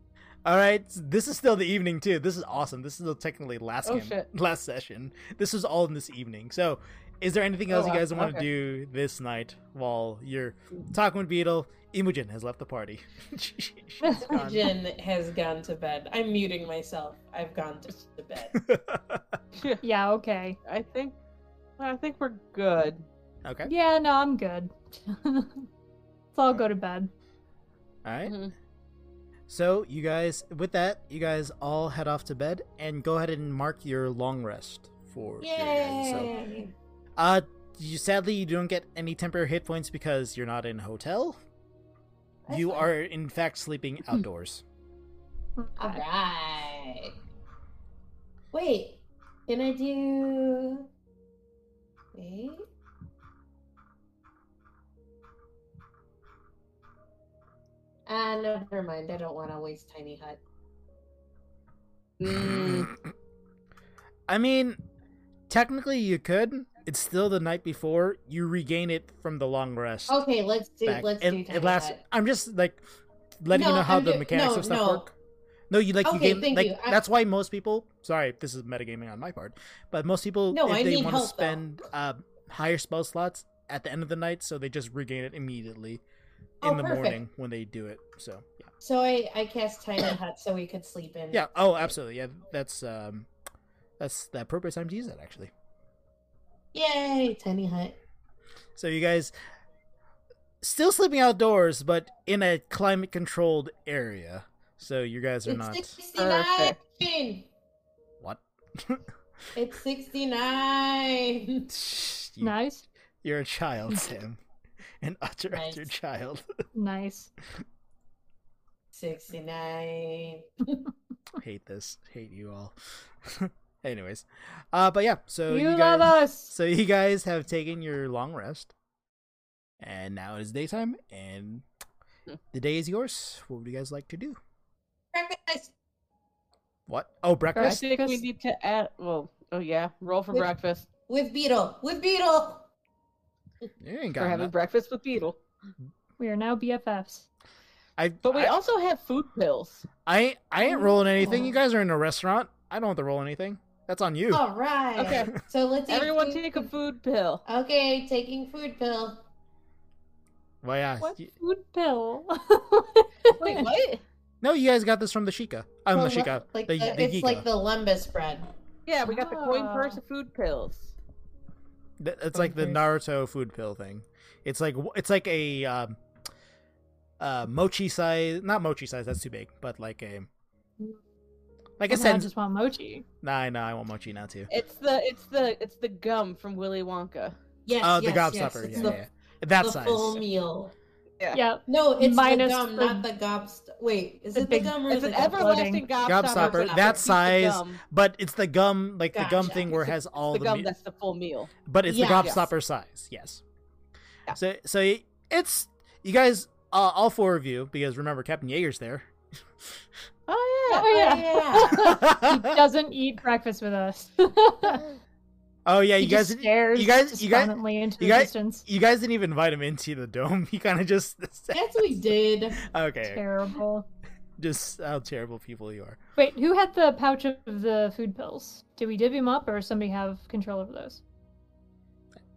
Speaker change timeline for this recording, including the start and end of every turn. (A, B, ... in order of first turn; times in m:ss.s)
0:00.4-0:14.7 A
0:03.8-0:04.3 B
0:07.7-0:08.4 B
0:14.0-0:14.3 C
0:14.3-0:18.5 D
0:18.5-0:19.4 A
0:19.5-0:19.8 B
0:19.8-0:20.6 C
0:20.6-0:21.2 B
0:21.8-0:23.0 B
0:23.4-0:23.7 A
0:23.6-0:25.7 C
0:26.4-0:27.1 C
0:28.0-0:28.4 A
0:28.2-0:28.5 B
0:29.5-0:36.3 A
0:35.4-0:36.7 D
0:37.2-0:41.4 A
0:42.5-0:42.9 D
0:42.5-0:44.6 A
0:45.6-0:46.0 C
0:45.8-0:47.2 D
0:48.5-0:50.9 D
0:52.1-0:52.7 D
0:58.1-1:00.4 D
1:02.2-1:02.9 B
1:02.4-1:03.0 A
1:04.3-1:04.8 A
1:05.5-1:10.2 A
1:10.1-1:12.0 D
1:10.9-1:12.8 A
1:13.4-1:15.1 A
1:13.5-1:15.1 D
1:15.7-1:26.0 A
1:16.0-1:17.0 D
1:20.5-1:21.6 D
1:26.6-1:27.2 D
1:26.6-1:28.7 A
1:28.8-1:32.0 D
1:31.3-1:33.3 A
1:34.0-1:35.5 A
1:36.7-1:38.0 D
1:38.8-1:39.3 A
1:40.6-1:46.0 A
1:45.5-1:47.5 D
1:46.2-1:46.8 B
1:48.2-1:49.0 A
1:49.6-1:51.7 D
1:51.7-1:52.5 A
1:52.4-1:52.9 C
1:53.2-1:54.4 A
1:55.0-1:56.4 A
1:55.5-1:55.9 D
1:56.7-1:57.3 C
1:58.9-2:00.8 D
2:01.4-2:08.7 A
2:05.5-2:06.5 C
2:09.8-2:11.6 A
2:12.5-2:14.4 A
2:15.1-2:15.7 D
2:16.9-2:17.8 A
2:17.6-2:18.2 C
2:17.6-2:20.9 B
2:21.1-2:22.7 D
2:23.8-2:24.5 A
2:24.2-2:25.4 B
2:26.2-2:27.3 C
2:28.0-2:28.5 A
2:28.2-2:29.9 B
2:30.1-2:34.4 A
2:30.6-2:31.6 D
2:34.3-2:36.7 D
2:35.0-2:35.3 B
2:35.9-2:37.4 B
2:37.5-2:39.2 D
2:40.6-2:41.3 A
2:41.0-2:43.6 C
2:43.4-2:44.0 B
2:44.4-2:47.4 A
2:45.9-2:48.5 D
2:48.9-2:50.9 B
2:49.1-2:50.0 C
2:52.0-2:56.0 A
2:52.3-2:52.9 D
2:57.2-3:00.3 A
3:01.8-3:02.3 A
3:01.9-3:03.0 C
3:03.2-3:04.5 A
3:04.5-3:07.4 B
3:07.7-3:09.0 D
3:07.8-3:10.2 A
3:09.6-3:10.7 D
3:11.3-3:13.0 C
3:11.7-3:15.6 D
3:14.3-3:15.9 C
3:14.9-3:17.8 B
3:16.0-3:20.7 A
3:16.3-3:17.0 D
3:19.1-3:19.9 D
3:19.5-3:21.5 B
3:21.7-3:23.4 A
3:21.9-3:22.5 D
3:22.2-3:22.4 B
3:24.3-3:29.1 A
3:30.3-3:31.2 B
3:30.7-3:34.8 C
3:30.8-3:32.0 D
3:31.6-3:32.6 A
3:35.7-3:41.6 A
3:36.0-3:38.6 C
3:41.5-3:42.6 D
3:42.7-3:43.2 A
3:43.1-3:43.9 C
3:44.4-3:46.0 A
3:46.2-3:51.0 C